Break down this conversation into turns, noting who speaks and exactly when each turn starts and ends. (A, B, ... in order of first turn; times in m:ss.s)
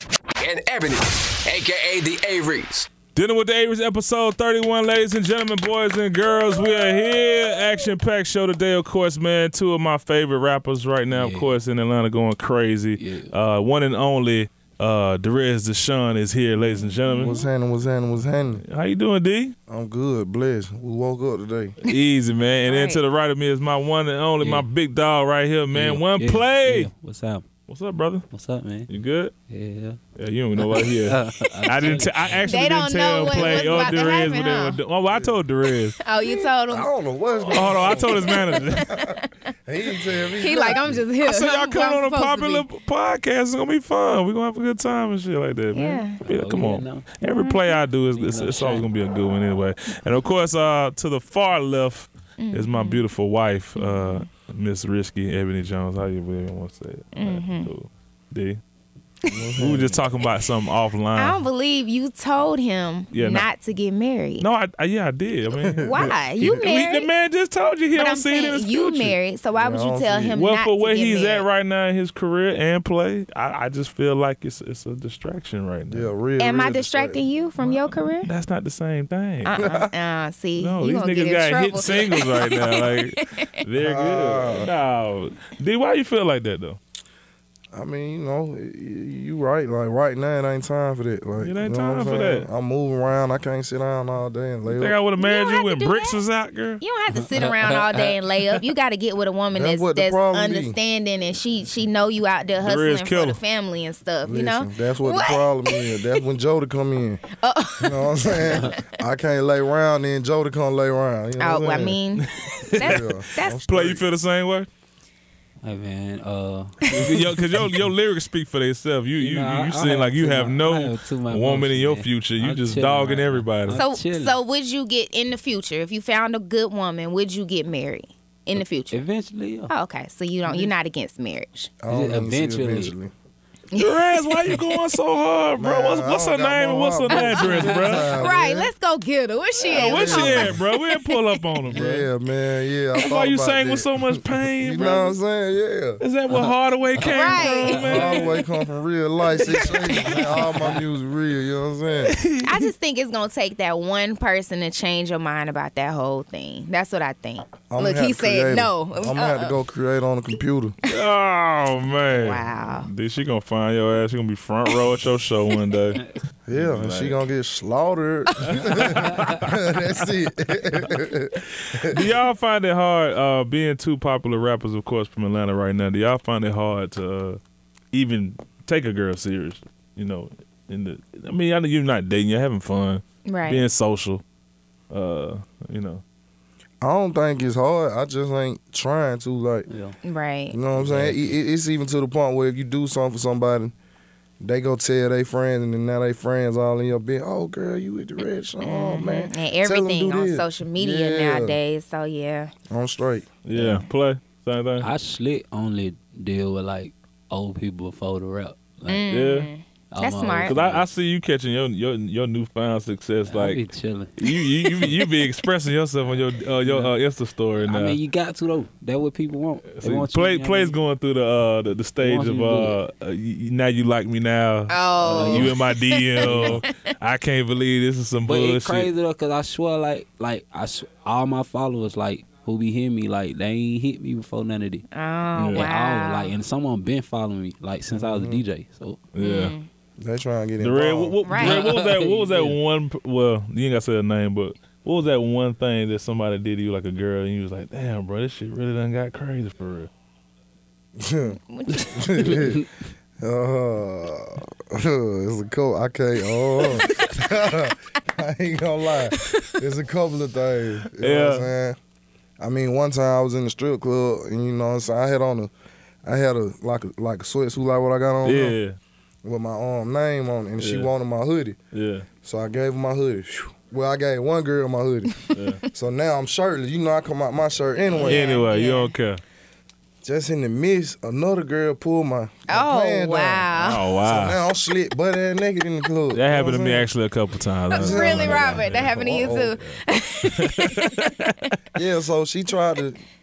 0:00.4-0:02.9 A
0:03.2-0:17.4 B
0:11.1-0:11.6 C
0:13.0-0:13.3 C
0:16.6-0:17.5 D
0:17.2-0:18.6 E
0:18.6-0:19.6 B
0:19.7-0:21.8 E
0:21.8-0:26.9 B
0:22.7-0:23.0 D
0:24.4-0:24.7 C
0:25.7-0:27.5 C
0:27.7-0:28.3 B
0:28.3-0:28.9 C
0:28.9-0:29.3 B
0:29.5-0:30.0 C
0:30.2-0:36.0 B
0:30.6-0:32.6 C
0:32.5-0:34.8 D
0:33.4-0:33.9 C
0:35.1-0:35.4 E
0:36.0-0:36.9 D
0:36.2-0:41.0 E
0:37.5-0:39.3 D
0:37.5-0:38.9 B
0:40.4-0:42.6 D
0:41.2-0:58.6 B
0:45.7-0:46.2 D
0:46.2-0:47.2 C
0:47.2-0:47.6 D
0:48.1-0:48.9 C
0:52.4-0:53.0 D
0:53.8-0:54.3 D
0:57.2-0:57.7 D
0:59.2-1:00.0 E
0:59.6-1:01.4 B
1:01.2-1:04.4 D
1:03.1-1:03.5 B
1:04.4-1:09.2 B
1:05.6-1:06.2 E
1:05.8-1:07.1 D
1:07.9-1:11.4 D
1:09.6-1:10.4 E
1:10.4-1:16.1 B
1:15.9-1:17.2 E
1:16.4-1:18.3 D
1:17.6-1:19.6 B
1:19.4-1:23.5 D
1:19.6-1:19.9 E
1:20.6-1:26.8 B
1:23.8-1:24.7 E
1:27.7-1:35.0 E
1:31.4-1:32.5 B
1:34.7-1:36.8 B
1:35.2-1:36.2 D
1:36.8-1:46.2 D
1:37.1-1:38.2 C
1:39.5-1:40.8 E
1:42.6-1:43.4 B
1:44.2-1:47.2 E
1:47.3-1:48.8 D
1:47.8-1:52.0 E
1:51.4-1:53.6 D
1:52.2-1:54.7 B
1:52.8-1:54.0 E
1:55.6-1:57.8 C
1:56.9-2:03.8 B
1:59.1-2:04.4 C
2:03.7-2:09.0 D
2:08.9-2:09.7 C
2:09.7-2:11.7 D
2:10.5-2:10.7 C
2:11.8-2:13.1 E
2:11.9-2:12.9 C
2:13.7-2:14.8 D
2:13.8-2:18.2 B
2:15.6-2:18.7 E
2:17.1-2:21.7 D
2:19.6-2:20.5 E
2:19.7-2:22.1 B
2:21.7-2:26.0 E
2:22.9-2:25.2 B
2:26.0-2:28.4 B
2:26.3-2:28.2 C
2:27.1-2:28.1 D
2:27.8-2:32.2 E
2:29.5-2:30.2 B
2:29.7-2:30.4 D
2:32.1-2:32.7 B
2:32.4-2:39.6 D
2:37.7-2:40.8 E
2:40.9-2:46.0 B
2:42.1-2:42.9 D
2:46.4-2:52.0 E
2:46.5-2:47.2 B
2:48.4-2:49.5 B
2:51.8-2:57.4 B
2:57.9-3:04.2 B
3:03.2-3:03.6 D
3:04.9-3:06.0 B
3:06.8-3:09.7 E
3:09.7-3:10.0 C
3:10.0-3:10.6 D
3:10.5-3:13.7 E
3:10.8-3:11.2 C
3:14.4-3:21.6 E
3:18.6-3:22.5 D
3:22.7-3:23.3 E
3:23.4-3:24.9 B
3:23.5-3:23.8 C
3:24.8-3:29.1 C
3:28.9-3:30.5 D
3:29.1-3:29.5 B
3:29.9-3:30.9 C
3:30.4-3:33.6 B
3:33.3-3:34.2 C
3:34.2-3:38.0 B
3:36.2-3:36.9 C
3:37.6-3:40.8 C
3:39.8-3:48.9 B
3:42.0-3:42.8 C
3:44.7-3:46.7 D
3:45.0-3:45.6 C
3:46.2-3:46.6 C
3:48.2-3:54.8 C
3:54.9-3:56.3 D
3:55.3-3:55.7 B
3:55.5-3:59.0 C
3:57.9-3:58.4 E
3:59.1-3:59.5 B
3:59.2-3:59.7 D
4:00.0-4:01.2 E
4:00.6-4:09.9 B
4:01.2-4:01.6 D
4:01.4-4:02.6 C
4:11.0-4:12.6 E
4:11.5-4:12.4 D
4:12.4-4:12.6 C
4:13.2-4:21.8 E
4:16.6-4:17.3 D
4:19.2-4:19.5 D
4:21.0-4:21.5 B
4:22.4-4:25.5 E
4:26.0-4:28.6 E
4:28.2-4:28.8 B
4:29.2-4:31.6 E
4:30.6-4:30.9 B
4:31.7-4:32.1 B
4:32.2-4:38.4 E
4:35.3-4:35.6 B
4:37.9-4:38.9 D
4:38.0-4:39.2 B
4:40.0-4:43.5 E
4:42.5-4:43.8 D
4:43.5-4:44.4 B
4:44.0-4:46.9 E
4:46.1-4:51.5 B
4:47.7-4:51.5 D
4:47.7-4:49.6 E
4:51.8-4:53.0 E